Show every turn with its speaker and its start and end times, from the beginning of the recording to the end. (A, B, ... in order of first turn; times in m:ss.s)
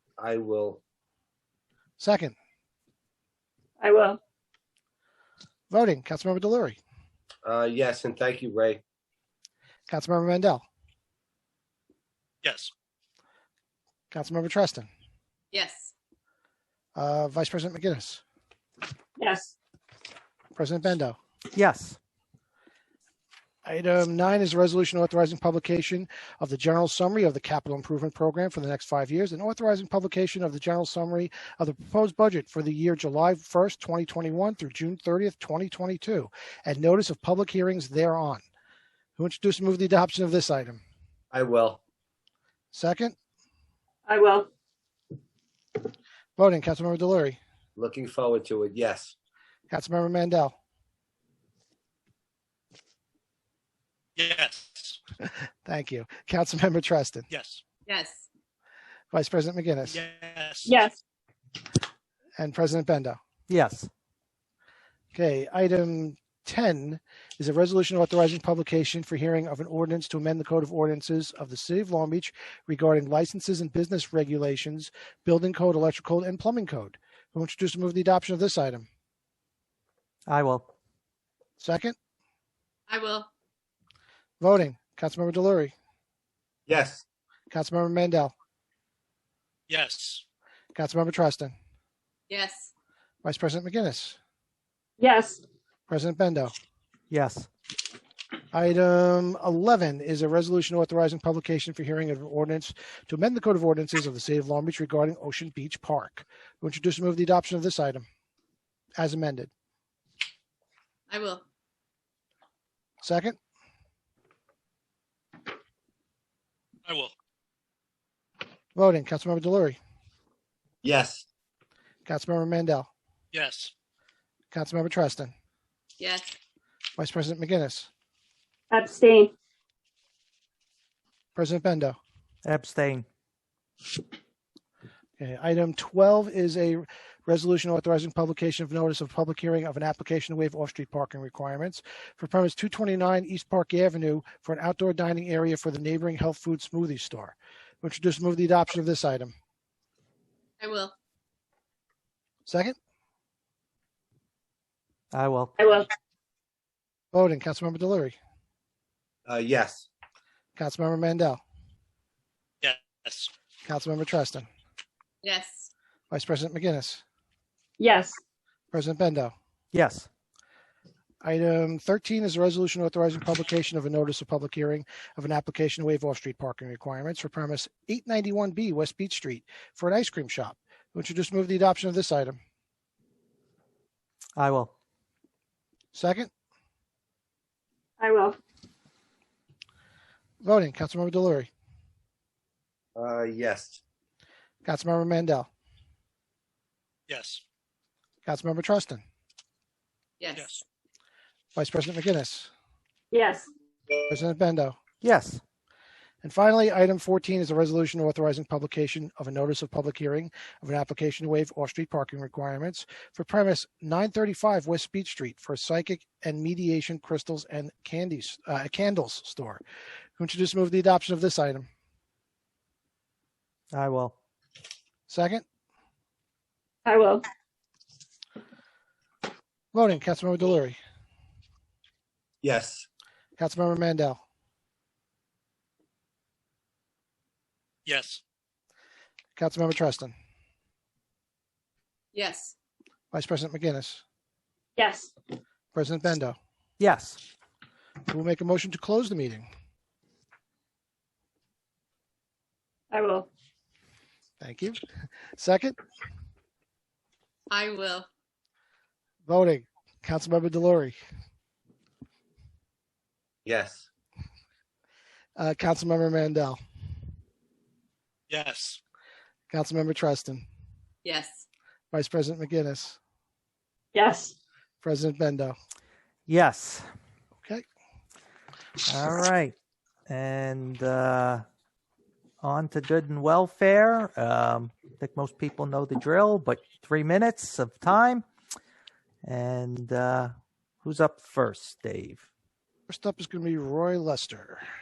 0:00.2-0:00.8 A
0:02.0-0:02.3 B
0:03.8-0:04.2 C
0:05.7-0:06.8 B
0:07.4-0:08.8 A
0:09.9-0:10.6 B
0:12.4-0:12.7 D
0:14.1-0:14.9 B
0:15.5-0:15.9 E
0:17.0-0:18.2 B
0:19.2-0:19.5 C
0:20.6-0:21.2 B
0:21.5-0:22.0 F
0:23.6-0:38.4 B
0:39.2-0:40.8 B
0:41.3-0:41.8 A
0:42.7-0:43.1 B
0:44.1-0:44.5 C
0:46.4-0:47.4 B
0:47.8-0:49.1 A
0:49.7-0:50.5 B
0:54.2-0:55.0 D
0:55.6-0:57.2 B
0:57.3-0:57.6 D
0:57.9-0:58.3 E
0:59.1-1:00.0 B
0:59.8-1:00.8 D
1:00.6-1:01.0 C
1:02.4-1:03.2 B
1:03.5-1:03.9 F
1:05.1-1:18.9 B
1:20.3-1:20.7 F
1:21.6-1:22.0 B
1:22.9-1:23.3 E
1:24.4-1:25.7 B
1:26.7-1:27.0 A
1:27.5-1:28.3 B
1:29.7-1:30.2 D
1:30.7-1:31.5 B
1:32.3-1:32.7 E
1:33.2-1:34.2 B
1:35.0-1:35.4 C
1:35.9-1:36.5 B
1:37.1-1:37.5 F
1:38.5-1:48.0 B
1:49.0-1:49.5 B
1:51.1-1:51.4 E
1:53.0-1:53.4 B
1:56.9-1:57.1 D
1:58.7-1:59.8 B
2:00.8-2:01.2 A
2:02.0-2:02.9 B
2:03.3-2:03.7 D
2:04.5-2:05.3 B
2:06.0-2:06.3 E
2:07.0-2:07.9 B
2:08.7-2:09.3 C
2:11.4-2:12.0 B
2:12.4-2:13.0 F
2:15.2-2:29.3 B
2:30.6-2:30.9 E
2:32.4-2:32.8 B
2:35.1-2:35.6 F
2:35.6-2:35.9 C
2:37.1-2:38.2 B
2:39.3-2:39.9 A
2:40.6-2:41.4 B
2:42.6-2:43.3 D
2:43.6-2:44.5 B
2:45.2-2:45.7 E
2:46.1-2:47.0 B
2:47.8-2:48.2 C
2:48.7-2:49.3 B
2:49.7-2:50.1 F
2:51.2-3:02.4 B
3:04.4-3:04.7 F
3:05.9-3:06.3 B
3:08.0-3:08.4 C
3:10.4-3:11.5 B
3:13.0-3:13.8 A
3:14.6-3:15.5 B
3:17.1-3:17.4 D
3:18.2-3:19.0 B
3:20.2-3:20.6 E
3:20.3-3:20.6 D
3:21.5-3:22.5 B
3:23.1-3:23.5 C
3:24.1-3:24.8 B
3:25.0-3:25.4 F
3:26.2-3:39.6 B
3:40.2-3:41.7 B
3:43.7-3:44.2 F
3:45.1-3:45.4 B
3:46.8-3:47.2 C
3:49.7-3:50.8 B
3:52.4-3:52.8 A
3:53.4-3:54.2 B
3:57.8-3:58.2 D
3:59.4-4:00.1 B
4:02.1-4:02.5 E
4:03.1-4:04.0 B
4:04.8-4:05.1 C
4:05.7-4:06.4 B
4:06.8-4:07.2 F
4:08.1-4:09.5 B
4:12.9-4:13.3 C
4:14.4-4:14.8 B
4:15.4-4:15.8 B
4:17.5-4:18.1 E
4:19.2-4:21.0 B
4:23.4-4:23.8 A
4:25.4-4:26.6 B
4:28.3-4:28.8 D
4:29.5-4:30.4 B
4:31.0-4:31.4 E
4:31.9-4:33.0 B
4:33.9-4:34.3 C
4:34.8-4:35.6 B
4:36.3-4:36.9 F
4:38.8-4:39.5 F
4:40.1-4:41.4 F
4:42.4-4:48.2 F
4:49.2-4:50.3 F
4:50.8-4:52.2 F
4:52.9-4:54.6 B